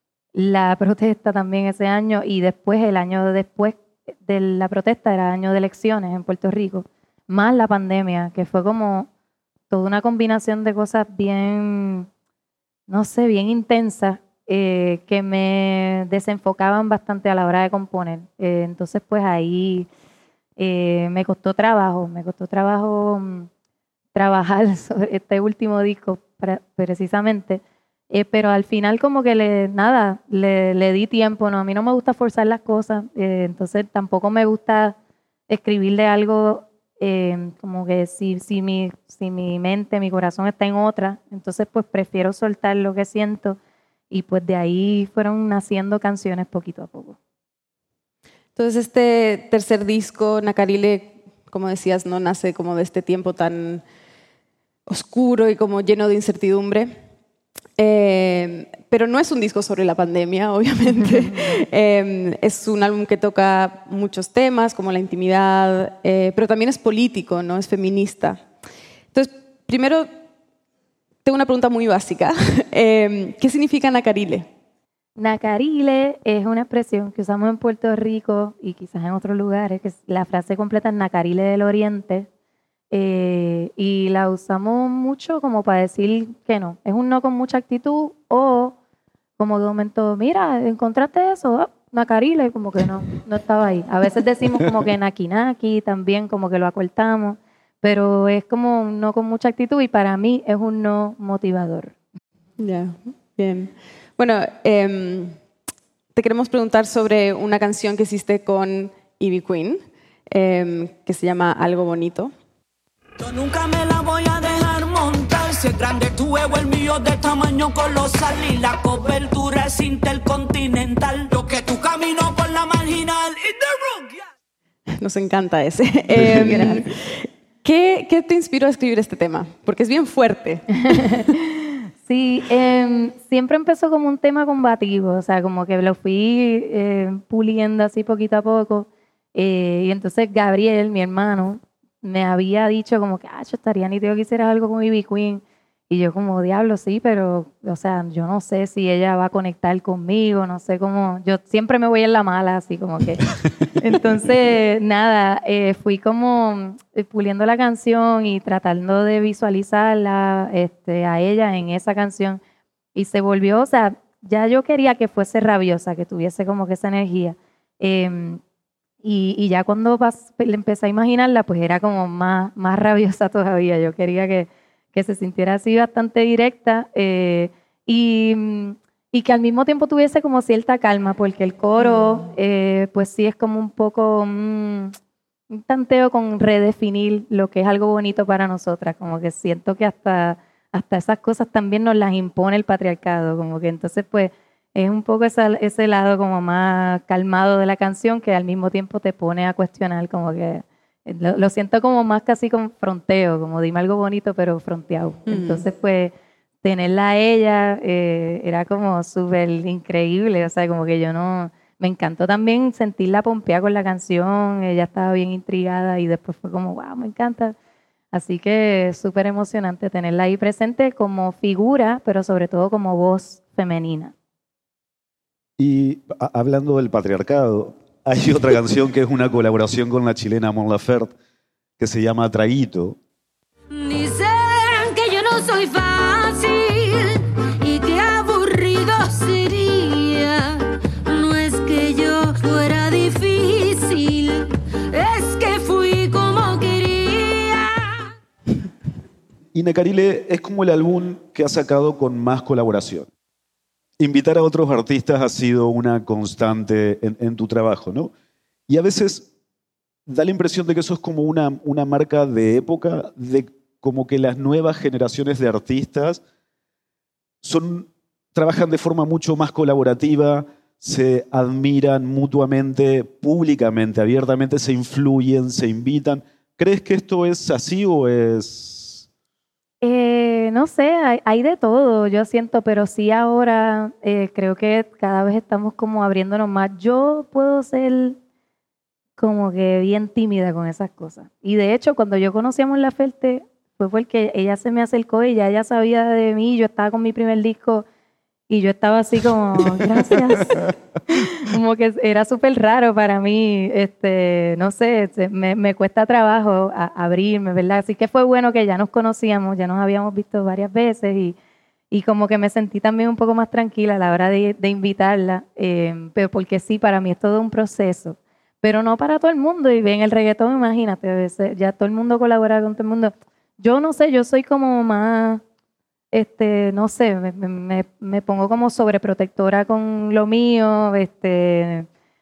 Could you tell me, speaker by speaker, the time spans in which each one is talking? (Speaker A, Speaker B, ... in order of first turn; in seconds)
Speaker A: 0.3-9.1, 9.7-12.1, 12.9-19.9, 20.6-23.5, 24.1-35.0, 35.5-43.6, 44.1-47.2, 75.2-82.3, 82.9-88.8, 89.4-102.0, 130.9-162.4, 162.9-168.4, 169.0-184.9, 185.5-217.6, 218.1-224.1, 279.8-288.2, 289.2-297.9, 298.5-311.4, 311.9-325.4, 326.1-331.9
Speaker B: 48.6-53.8, 54.9-56.9, 57.8-68.4, 69.1-70.1, 71.2-74.5, 102.6-105.4, 106.2-112.3, 125.0-131.2, 205.3-205.7
Speaker C: 113.2-124.3
Speaker D: 126.1-126.8, 225.6-231.2, 231.8-233.0, 249.5-253.1, 254.0-258.1, 258.7-259.3, 260.1-266.2, 267.4-279.1
Speaker E: 233.7-248.0